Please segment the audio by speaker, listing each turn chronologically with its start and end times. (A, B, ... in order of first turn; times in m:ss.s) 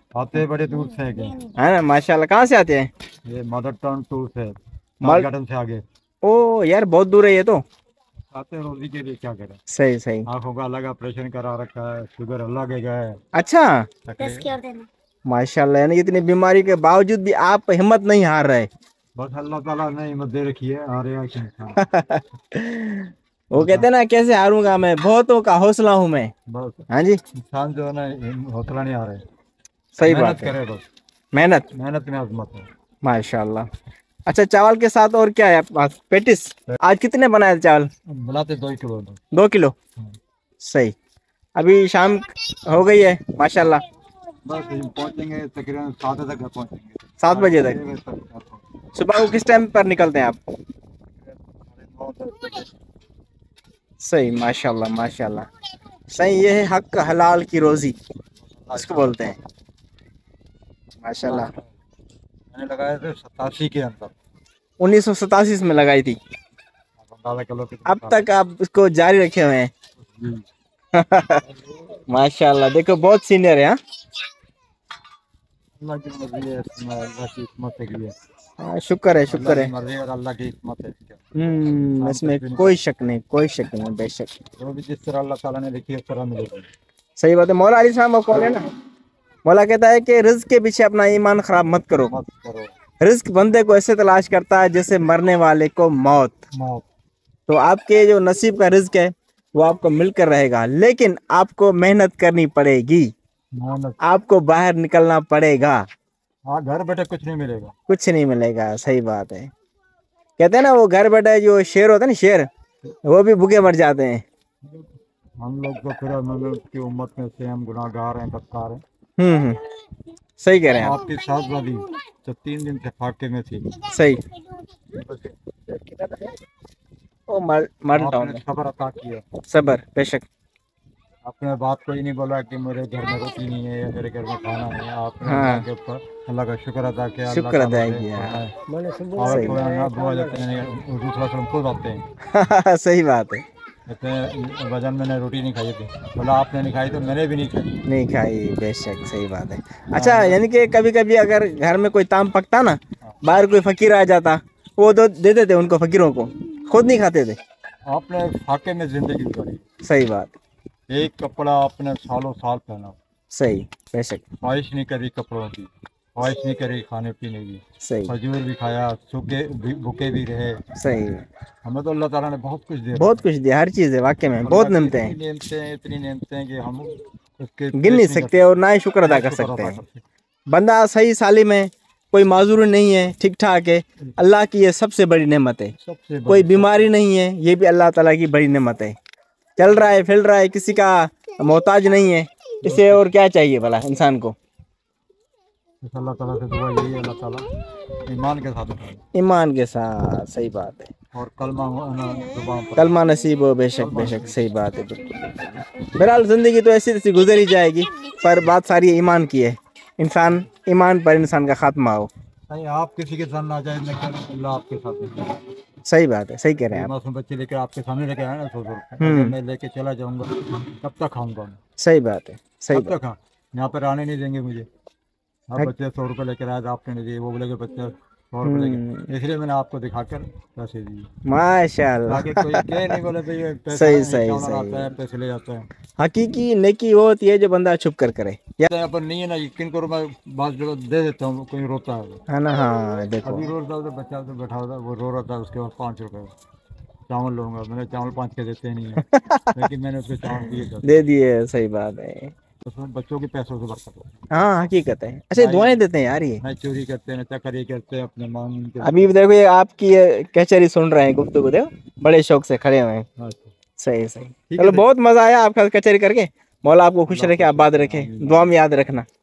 0:00.1-0:01.4 A
0:01.6-0:02.9 B
0:03.2-0:05.8 A
0:05.0-0:05.2 B
0:06.2-0:07.6 B
0:08.3-0:09.6 A
0:09.7-0:10.3 B
0:10.2-0:13.2 A
0:13.3-0:13.9 B
0:14.0-0:14.6 A
0:15.3-0:18.7 B
0:19.2-0:21.8 A
0:21.8-0:26.3 B
0:23.5-0:23.9 A
0:26.5-0:29.2 A
0:26.9-0:27.2 B
0:29.9-0:30.5 B
0:30.0-0:30.8 A
0:31.3-0:31.7 B
0:31.7-0:32.7 A
0:33.0-0:33.7 B
0:34.3-0:37.9 B
0:38.1-0:39.2 A
0:39.3-0:39.8 B
0:40.6-0:40.9 B
0:41.6-0:43.8 B
0:44.4-0:48.6 A
0:47.2-0:47.8 B
0:48.9-0:50.4 B
0:51.2-0:52.7 A
0:54.0-0:55.5 B
0:56.1-0:57.9 B
0:58.4-0:59.3 A
0:58.8-0:59.4 B
1:01.0-1:01.5 B
1:01.2-1:01.7 A
1:02.5-1:04.1 A
1:04.8-1:06.2 B
1:07.0-1:08.2 A
1:07.9-1:09.7 B
1:10.0-1:10.4 A
1:10.9-1:11.5 B
1:12.1-1:13.8 B
1:15.8-1:18.2 A
1:18.6-1:19.7 B
1:19.3-1:21.2 A
1:21.3-1:24.3 B
1:22.0-1:22.8 A
1:24.6-1:26.7 A
1:27.2-1:28.6 B
1:29.4-1:32.1 B
1:32.0-1:32.7 A
1:33.0-1:36.4 B
1:36.5-1:36.8 A
1:37.5-1:43.1 B
1:43.5-1:44.0 A
1:44.0-1:45.8 B
1:46.5-1:47.7 A
1:47.9-1:49.5 B
1:50.4-1:52.5 B
1:53.0-1:54.2 B
1:55.4-1:58.8 A
1:59.2-1:59.6 B
2:00.4-2:01.0 B
2:00.7-2:03.7 A
2:03.8-2:04.2 B
2:04.9-2:05.4 A
2:05.8-2:06.3 B
2:07.3-2:08.4 B
2:07.9-2:09.3 A
2:09.5-2:10.2 B
2:11.2-2:22.0 A
2:15.2-2:15.6 B
2:17.3-2:18.4 B
2:19.2-2:19.6 B
2:22.3-2:23.4 B
2:23.9-2:27.8 A
2:27.9-2:37.4 B
2:29.9-2:30.4 A
2:37.9-2:39.6 A
2:39.8-2:40.4 B
2:40.9-2:43.0 A
2:43.3-2:44.2 B
2:44.4-2:50.6 A
2:47.8-2:48.1 B
2:50.8-2:51.2 B
2:51.6-2:53.2 A
2:53.0-2:55.2 B
2:54.4-2:58.4 A
2:57.7-2:59.8 B
2:59.0-3:00.0 A
3:00.5-3:05.7 B
3:05.8-3:06.9 A
3:06.3-3:09.0 B
3:09.6-3:14.3 B
3:12.6-3:13.0 A
3:15.8-3:17.5 A
3:18.0-3:19.0 A
3:19.1-3:20.9 B
3:21.1-3:23.0 A
3:22.8-3:32.1 B
3:23.7-3:24.4 A
3:32.5-3:35.3 A
3:35.8-3:36.9 B
3:36.6-3:41.6 A
3:39.0-3:39.3 B
3:41.8-3:42.9 B
3:42.7-3:44.7 A
3:45.5-3:51.1 A
3:48.4-3:49.1 B
3:51.2-3:52.7 B
3:52.1-3:55.7 A
3:53.7-3:54.9 B
3:56.0-3:58.7 B
3:58.7-4:02.2 A
4:02.3-4:03.5 B
4:03.2-4:06.3 A
4:07.1-4:11.0 A
4:09.0-4:09.6 B
4:10.3-4:12.3 B
4:12.6-4:14.2 A
4:14.3-4:16.4 B
4:15.4-4:15.8 A
4:16.4-4:19.1 A
4:18.8-4:23.0 B
4:23.2-4:23.5 A
4:23.8-4:29.0 B
4:24.5-4:24.9 A
4:27.1-4:28.5 A